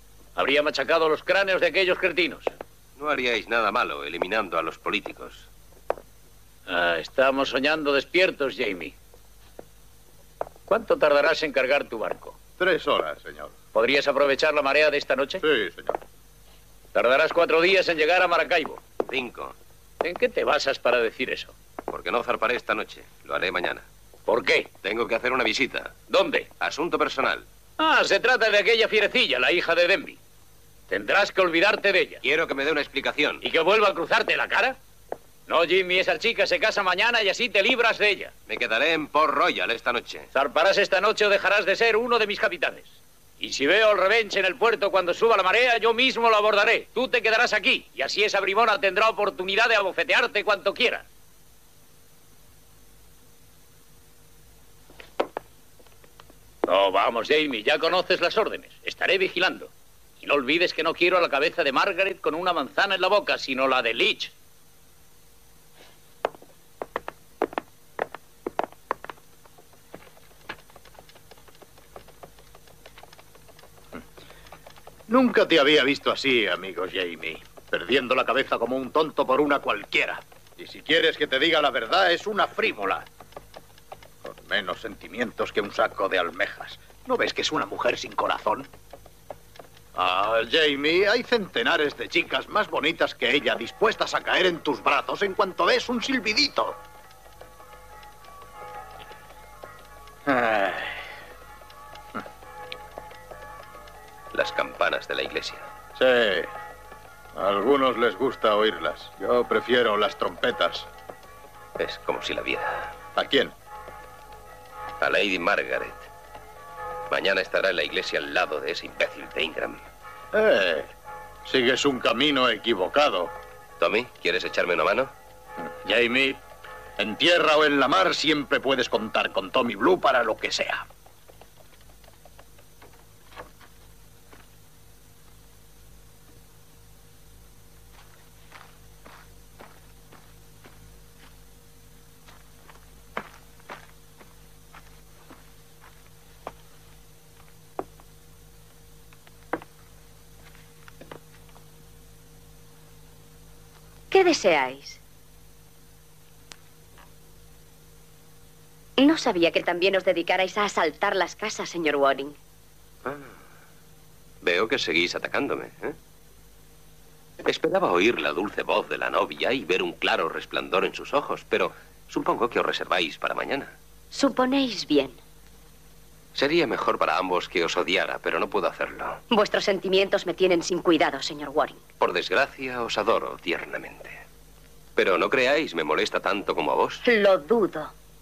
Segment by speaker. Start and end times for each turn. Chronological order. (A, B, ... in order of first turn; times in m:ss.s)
0:00.4-0:02.5 A
0:03.0-0:05.5 B
0:06.7-0:09.0 A
0:10.7-0:12.4 A
0:12.6-0:13.5 C
0:13.7-0:15.4 A
0:15.4-0:16.0 C
0:16.9-0:18.8 A
0:19.1-0:19.6 B
0:20.0-0:21.5 A
0:21.9-0:23.9 B
0:24.3-0:24.7 A
0:24.8-0:26.0 B
0:26.1-0:26.5 A
0:26.6-0:27.5 B
0:27.8-0:30.2 A
0:30.9-0:32.2 A
0:32.2-0:33.4 B
0:33.4-0:34.8 A
0:35.5-0:38.3 A
0:38.5-0:40.3 B
0:40.3-0:51.1 A
0:56.7-1:04.3 A
1:15.1-1:23.1 C
1:24.2-1:28.7 C
1:30.0-1:36.8 C
1:40.3-1:41.0 C
1:44.3-1:45.7 B
1:46.0-1:46.5 C
1:47.4-1:50.9 C
1:51.8-1:52.9 B
1:53.2-1:53.5 C
1:55.0-1:56.1 B
1:57.1-1:59.8 B
2:00.3-2:00.9 C
2:01.4-2:03.3 C
2:03.8-2:05.1 B
2:05.7-2:06.4 C
2:07.0-2:10.8 C
2:34.1-2:35.0 D
2:39.0-2:42.4 D
2:43.0-2:43.3 B
2:44.4-2:46.0 B
2:47.4-2:53.7 B
2:54.1-2:55.2 D
2:56.4-2:59.2 B
2:59.3-3:01.8 D
3:02.0-3:04.2 B
3:05.0-3:07.0 B
3:07.0-3:07.9 D